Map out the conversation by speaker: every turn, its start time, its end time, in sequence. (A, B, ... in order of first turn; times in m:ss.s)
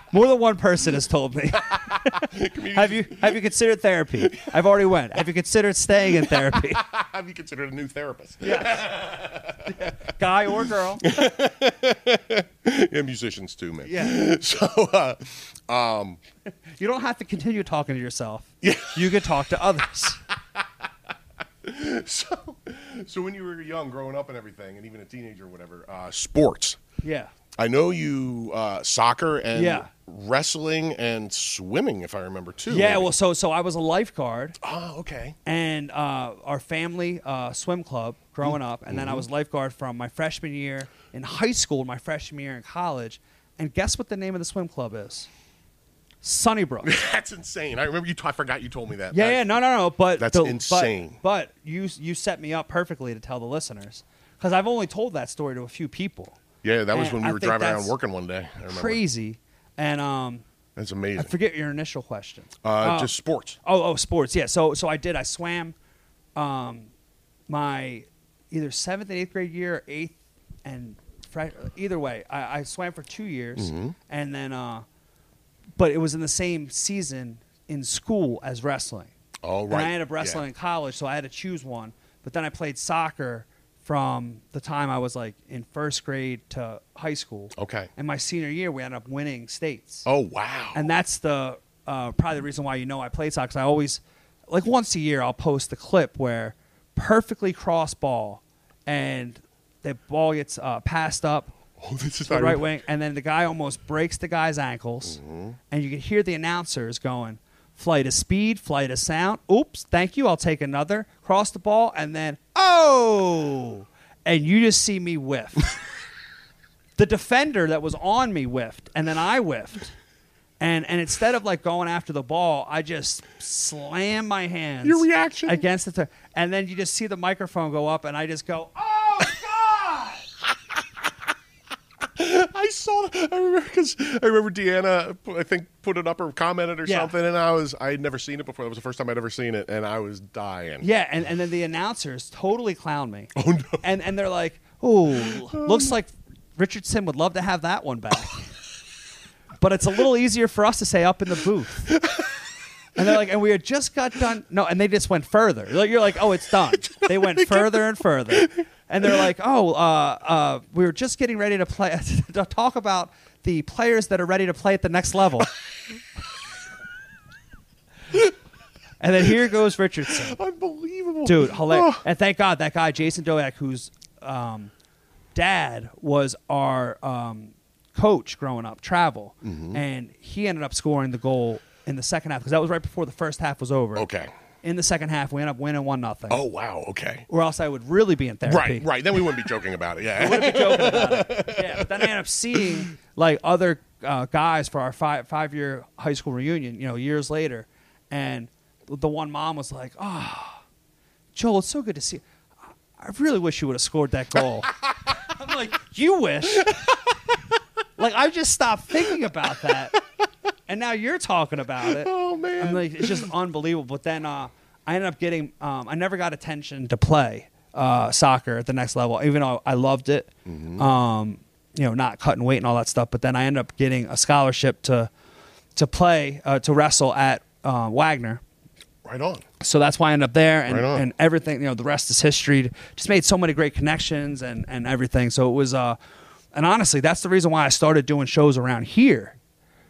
0:00.1-0:06.8 A
0:01.5-0:03.4 B
0:04.2-0:04.6 B
0:06.1-0:10.1 B
0:08.4-0:08.8 A
0:09.7-0:11.1 A
0:11.0-0:16.2 B
0:13.8-0:14.2 A
0:16.8-0:20.2 A
0:18.6-0:19.1 B
0:21.6-0:26.8 B
0:27.0-0:27.3 A
0:27.6-0:33.1 B
0:29.5-0:29.9 A
0:32.7-0:34.6 A
0:34.6-0:35.4 B
0:35.4-0:45.3 A
0:38.4-0:39.2 B
0:46.2-0:46.9 A
0:46.8-0:49.6 B
0:49.1-0:56.4 A
0:50.2-0:51.2 B
0:56.6-0:59.0 B
0:56.9-0:57.9 A
0:58.7-1:00.4 A
1:00.8-1:01.3 B
1:01.2-1:05.7 A
1:02.6-1:03.6 B
1:06.4-1:06.9 A
1:07.5-1:14.8 A
1:13.6-1:14.0 B
1:15.8-1:19.1 A
1:19.4-1:20.4 B
1:19.7-1:30.0 A
1:27.5-1:27.9 B
1:30.0-1:30.9 B
1:30.7-1:41.6 A
1:41.8-1:42.7 B
1:42.2-1:45.2 A
1:45.0-1:45.6 B
1:45.7-1:55.7 A
1:57.0-1:59.9 A
2:00.6-2:10.2 A
2:04.8-2:05.6 B
2:12.0-2:20.8 B
2:16.8-2:17.1 A
2:20.8-2:28.5 A
2:23.3-2:23.8 B
2:25.2-2:25.9 B
2:29.6-2:32.0 A
2:31.9-2:32.3 B
2:33.0-2:45.5 A
2:36.9-2:38.5 B
2:49.0-2:50.4 A
2:50.1-2:52.0 B
2:51.2-2:54.7 A
2:55.3-3:04.0 A
2:59.4-2:59.8 B
3:03.9-3:04.3 B
3:04.6-3:06.4 A
3:06.3-3:07.2 B
3:07.3-3:08.9 A
3:08.4-3:12.6 B
3:10.2-3:20.6 A
3:21.3-3:22.2 A
3:23.0-3:24.7 A
3:25.2-3:26.9 A
3:26.6-3:26.9 B
3:28.0-3:30.0 A
3:30.7-3:45.1 A
3:31.8-3:33.3 B
3:40.4-3:40.9 B
3:45.8-3:48.4 A
3:49.0-3:49.4 B
3:49.6-3:56.0 A
3:50.7-3:51.0 B
3:56.5-3:59.4 A